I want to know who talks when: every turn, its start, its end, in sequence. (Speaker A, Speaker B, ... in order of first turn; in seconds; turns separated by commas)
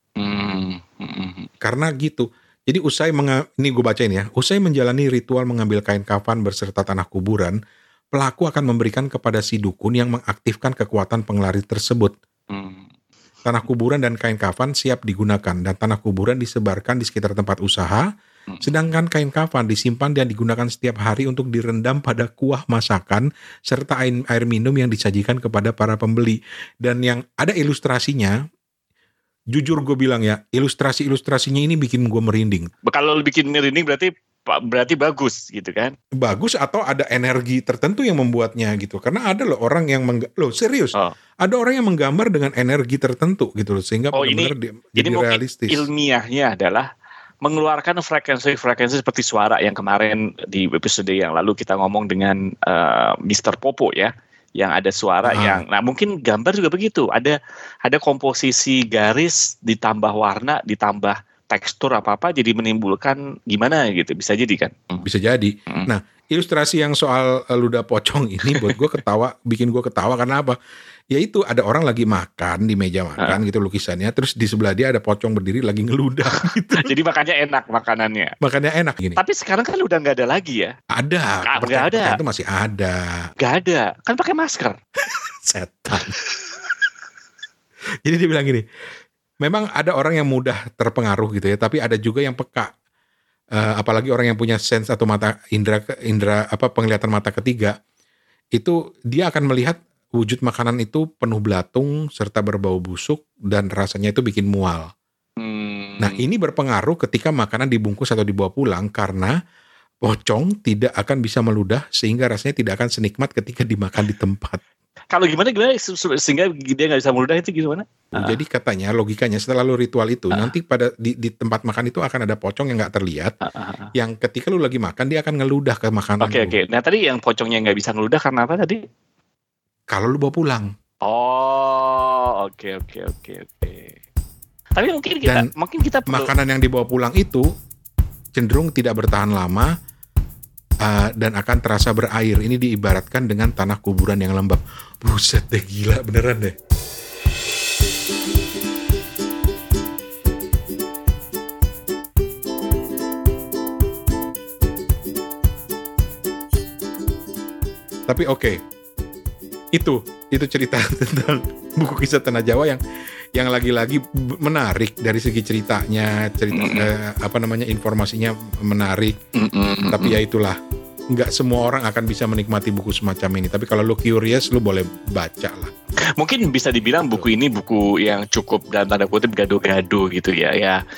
Speaker A: 0.2-1.5, Speaker B: 1.6-7.6, Speaker B: 8.1-12.1, Speaker A: 12.5-12.9, Speaker B: 13.4-18.0, Speaker B: 18.6-28.3, Speaker B: 29.5-32.7, Speaker A: 32.9-35.9, Speaker B: 36.2-45.9, Speaker A: 44.1-46.9, Speaker A: 47.4-65.0, Speaker B: 55.2-55.6, Speaker B: 65.0-70.6, Speaker A: 68.5-68.7, Speaker B: 71.1-76.9, Speaker A: 76.3-78.3, Speaker B: 78.4-79.2, Speaker A: 79.2-80.7, Speaker B: 80.9-83.3, Speaker A: 81.4-82.2, Speaker A: 83.4-84.8, Speaker B: 85.0-86.2, Speaker B: 88.0-88.6, Speaker B: 89.4-92.7, Speaker B: 93.5-97.7, Speaker B: 98.5-104.9, Speaker A: 105.4-106.2, Speaker B: 106.0-109.3, Speaker B: 110.0-114.6, Speaker A: 115.1-118.4, Speaker B: 118.1-123.3, Speaker A: 123.4-123.9, Speaker B: 124.0-126.5, Speaker A: 126.2-128.8, Speaker B: 129.9-130.7, Speaker A: 131.0-134.0, Speaker A: 134.8-136.3, Speaker B: 136.1-137.4, Speaker B: 138.3-139.7, Speaker B: 140.8-146.5, Speaker B: 158.1-158.6, Speaker B: 159.8-162.8, Speaker B: 163.3-169.2, Speaker A: 166.5-166.9, Speaker A: 169.3-170.2, Speaker B: 169.9-170.6, Speaker B: 171.1-175.7, Speaker A: 176.2-180.8